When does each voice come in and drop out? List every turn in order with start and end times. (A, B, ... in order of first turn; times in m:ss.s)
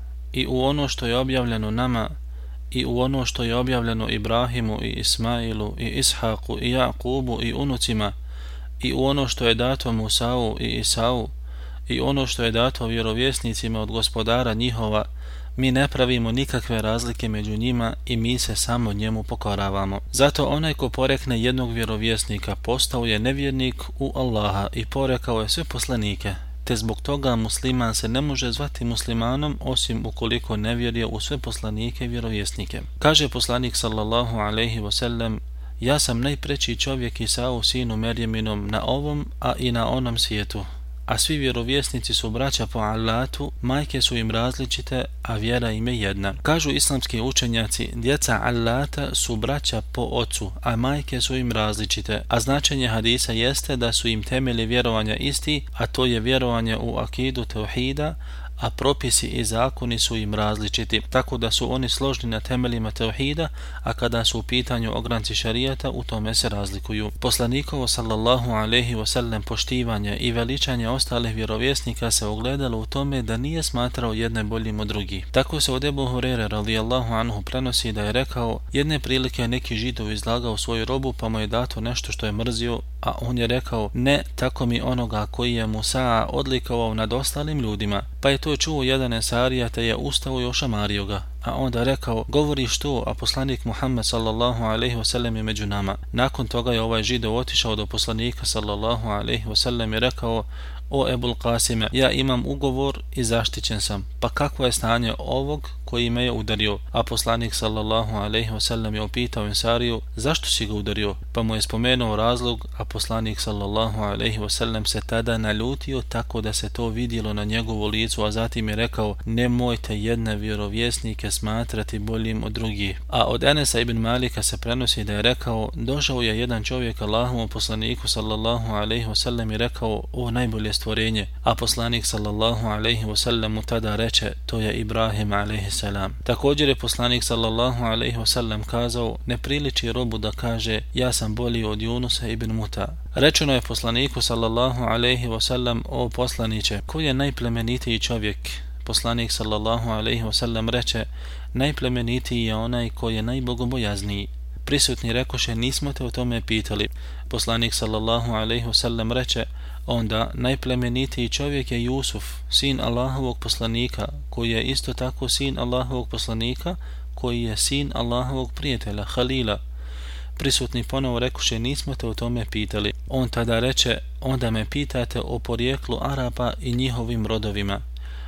0:00.3-0:02.1 A
0:02.7-0:08.1 A
0:08.8-0:11.3 A
0:11.9-2:49.6 A
2:50.4-2:57.8 A